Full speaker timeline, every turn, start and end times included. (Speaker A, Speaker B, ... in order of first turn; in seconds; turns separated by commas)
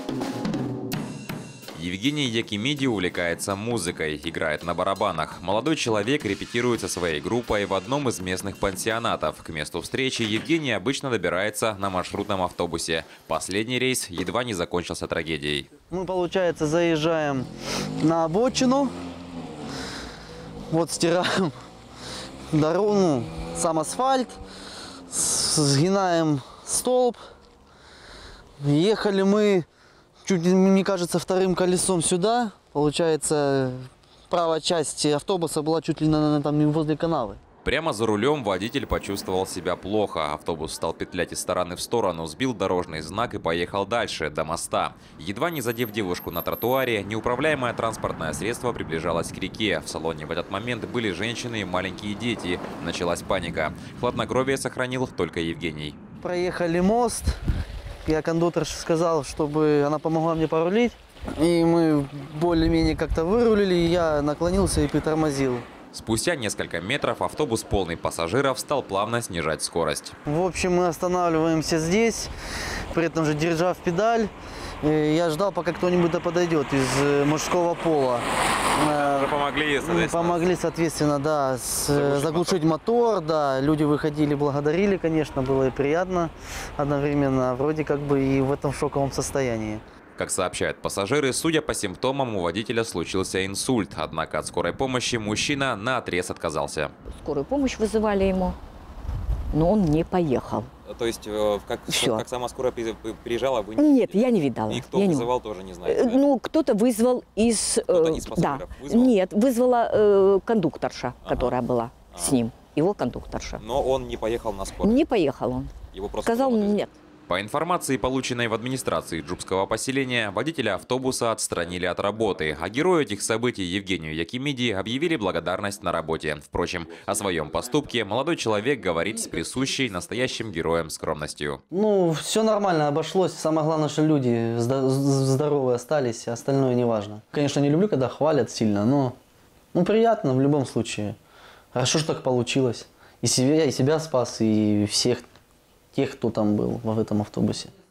Speaker A: 1.8-15.7, Speaker B: 15.9-17.5, Speaker B: 18.0-18.9, Speaker B: 20.7-21.5, Speaker B: 22.5-24.4, Speaker B: 25.1-27.2, Speaker B: 28.6-29.7, Speaker B: 30.2-37.4, Speaker A: 37.6-56.0, Speaker B: 56.2-57.4, Speaker B: 58.0-65.7, Speaker A: 65.9-70.2, Speaker B: 70.3-72.3, Speaker B: 72.9-89.8, Speaker A: 78.9-80.6, Speaker A: 81.9-82.6, Speaker A: 90.2-96.9, Speaker C: 97.1-98.6, Speaker C: 99.5-100.7, Speaker A: 100.9-106.2, Speaker C: 101.9-102.2, Speaker C: 103.8-105.3, Speaker C: 105.8-113.6, Speaker A: 107.9-109.2, Speaker A: 111.2-111.6, Speaker A: 112.1-112.4, Speaker A: 113.6-115.0, Speaker C: 114.8-116.9, Speaker A: 115.9-131.6, Speaker B: 131.7-139.2, Speaker B: 139.7-141.2, Speaker B: 141.7-145.3, Speaker B: 145.9-147.7